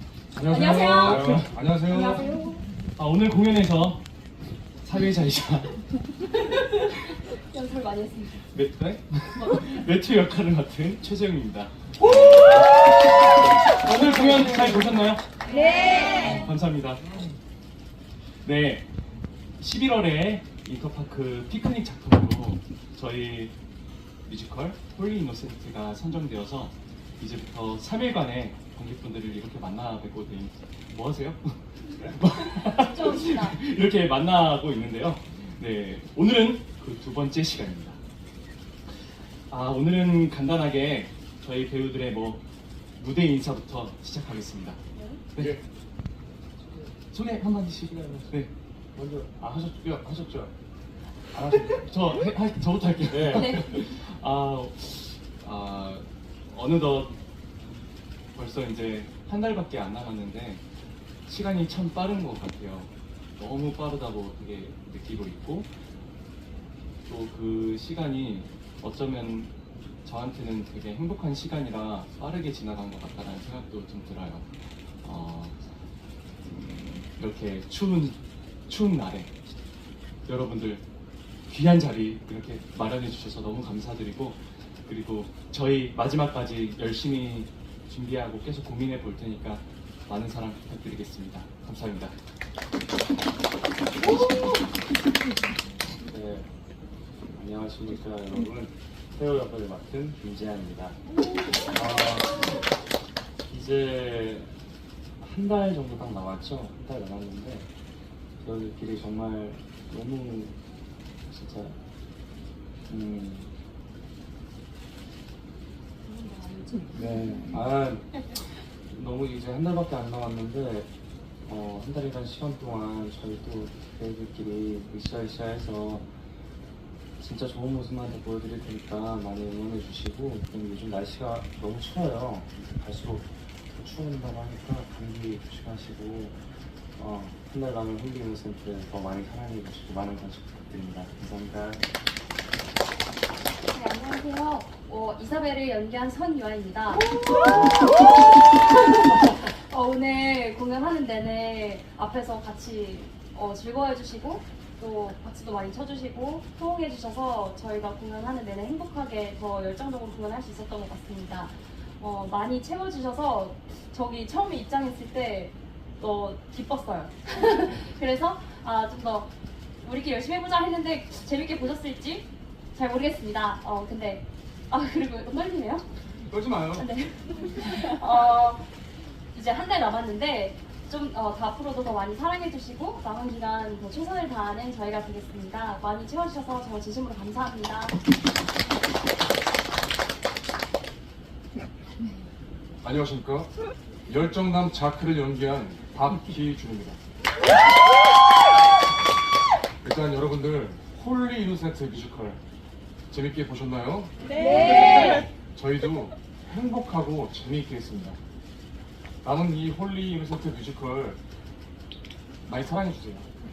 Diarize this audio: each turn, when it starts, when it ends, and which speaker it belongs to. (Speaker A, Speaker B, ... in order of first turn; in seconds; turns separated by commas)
Speaker A: 0.3-2.3, Speaker B: 0.4-2.6, Speaker C: 0.6-1.6, Speaker C: 3.0-4.0, Speaker C: 4.8-5.8, Speaker B: 6.3-8.4, Speaker C: 8.5-15.2, Speaker B: 12.0-13.2, Speaker B: 15.4-16.3, Speaker C: 16.1-17.0, Speaker C: 18.4-18.9, Speaker C: 19.6-23.5, Speaker C: 24.3-38.0, Speaker B: 32.5-33.6, Speaker C: 39.5-42.4, Speaker C: 43.0-44.8, Speaker C: 47.1-48.5, Speaker D: 47.8-48.3, Speaker D: 49.0-49.4, Speaker A: 49.4-50.5, Speaker C: 51.4-57.2, Speaker D: 53.1-53.5, Speaker B: 53.3-53.8, Speaker C: 58.3-60.6, Speaker C: 61.3-65.7, Speaker C: 67.1-69.5, Speaker C: 70.0-74.5, Speaker C: 75.0-75.6, Speaker C: 76.4-79.3, Speaker C: 80.3-80.8, Speaker C: 81.5-92.2, Speaker D: 96.0-96.5, Speaker D: 97.3-101.0, Speaker D: 101.7-102.6, Speaker D: 103.5-104.5, Speaker D: 105.2-107.7, Speaker D: 108.4-110.6, Speaker D: 111.3-111.8, Speaker D: 112.9-113.5, Speaker B: 116.0-117.2, Speaker D: 116.9-118.3, Speaker D: 118.9-120.9, Speaker D: 121.5-126.1, Speaker D: 127.2-136.4, Speaker D: 137.0-141.8, Speaker B: 143.7-175.8, Speaker A: 176.3-176.9, Speaker B: 176.7-178.7, Speaker B: 179.3-188.0, Speaker A: 192.8-193.5, Speaker A: 194.1-197.0, Speaker A: 199.8-202.4, Speaker A: 203.1-208.2, Speaker B: 204.4-205.2, Speaker A: 209.2-211.2, Speaker A: 212.4-213.3